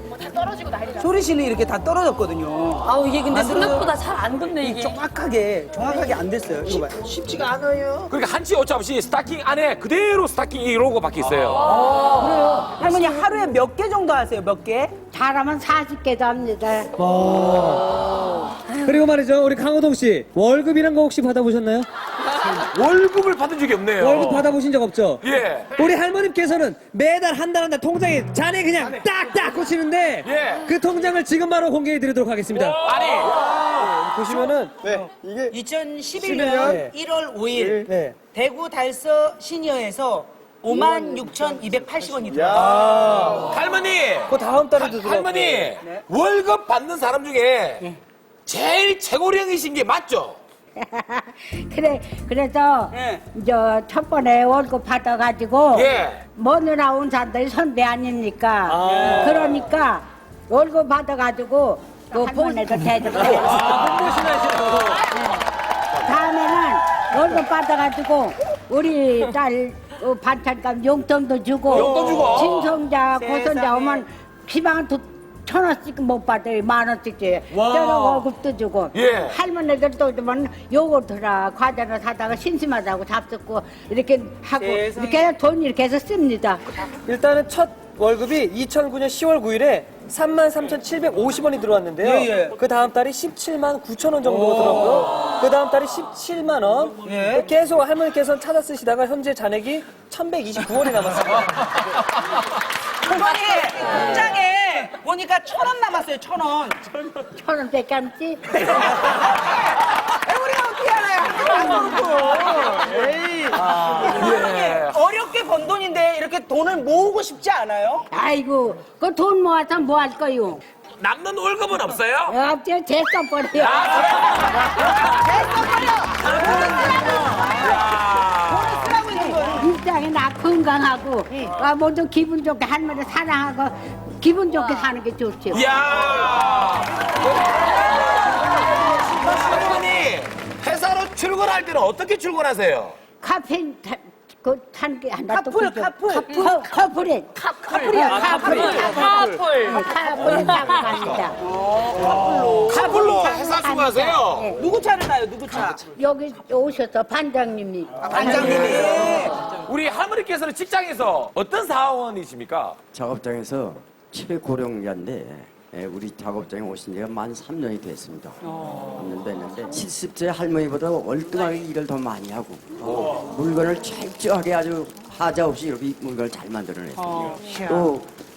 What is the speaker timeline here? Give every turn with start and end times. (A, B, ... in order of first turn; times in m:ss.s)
0:00.2-0:00.9 A
0:00.9-0:04.0 B
0:02.9-0:04.9 A
0:04.6-0:08.0 B
0:08.1-0:12.0 C
0:11.9-0:14.9 B
0:15.1-0:16.9 D
0:17.0-0:21.9 E
0:22.4-0:24.5 C
0:24.0-0:25.2 E
0:25.2-0:25.7 C
0:25.8-0:32.8 E
0:30.2-0:30.7 C
0:32.8-0:33.5 C
0:33.7-0:34.7 E
0:34.9-0:42.8 B
0:36.4-0:36.9 E
0:37.8-0:38.2 E
0:42.5-0:47.8 C
0:42.9-0:43.4 E
0:44.3-0:45.7 E
0:48.4-0:50.4 C
0:50.8-1:03.8 D
0:52.9-0:53.2 B
0:55.7-0:56.2 C
0:58.7-0:59.6 E
1:02.9-1:05.1 E
1:03.5-1:03.8 C
1:05.9-1:26.6 D
1:11.7-1:12.6 B
1:11.8-1:12.7 C
1:13.2-1:14.0 B
1:17.6-1:17.9 C
1:18.9-1:19.4 C
1:24.6-1:25.3 B
1:26.9-1:41.8 E
1:32.0-1:32.6 B
1:37.0-1:37.5 B
1:43.0-1:46.8 B
1:47.3-1:48.9 D
1:48.7-1:58.1 B
1:53.5-1:54.9 C
1:58.1-2:00.6 D
2:01.0-2:02.4 C
2:02.3-2:04.4 D
2:03.6-2:04.9 C
2:04.9-2:07.7 B
2:07.5-2:08.9 C
2:08.5-2:09.7 B
2:09.1-2:15.6 D
2:15.5-2:17.0 C
2:19.1-2:23.0 C
2:23.2-2:31.4 D
2:25.3-2:26.7 B
2:27.4-2:27.8 A
2:27.7-2:28.0 C
2:27.7-2:29.2 B
2:27.9-2:29.7 E
2:29.3-2:30.5 A
2:30.2-2:30.9 E
2:31.6-2:32.9 B
2:32.6-2:34.5 C
2:32.7-2:34.6 D
2:34.5-2:35.9 B
2:35.9-2:39.2 D
2:38.0-2:39.4 B
2:38.4-2:38.8 C
2:39.6-2:42.8 C
2:42.9-2:58.1 F
2:52.8-2:53.2 C
2:57.0-2:57.8 B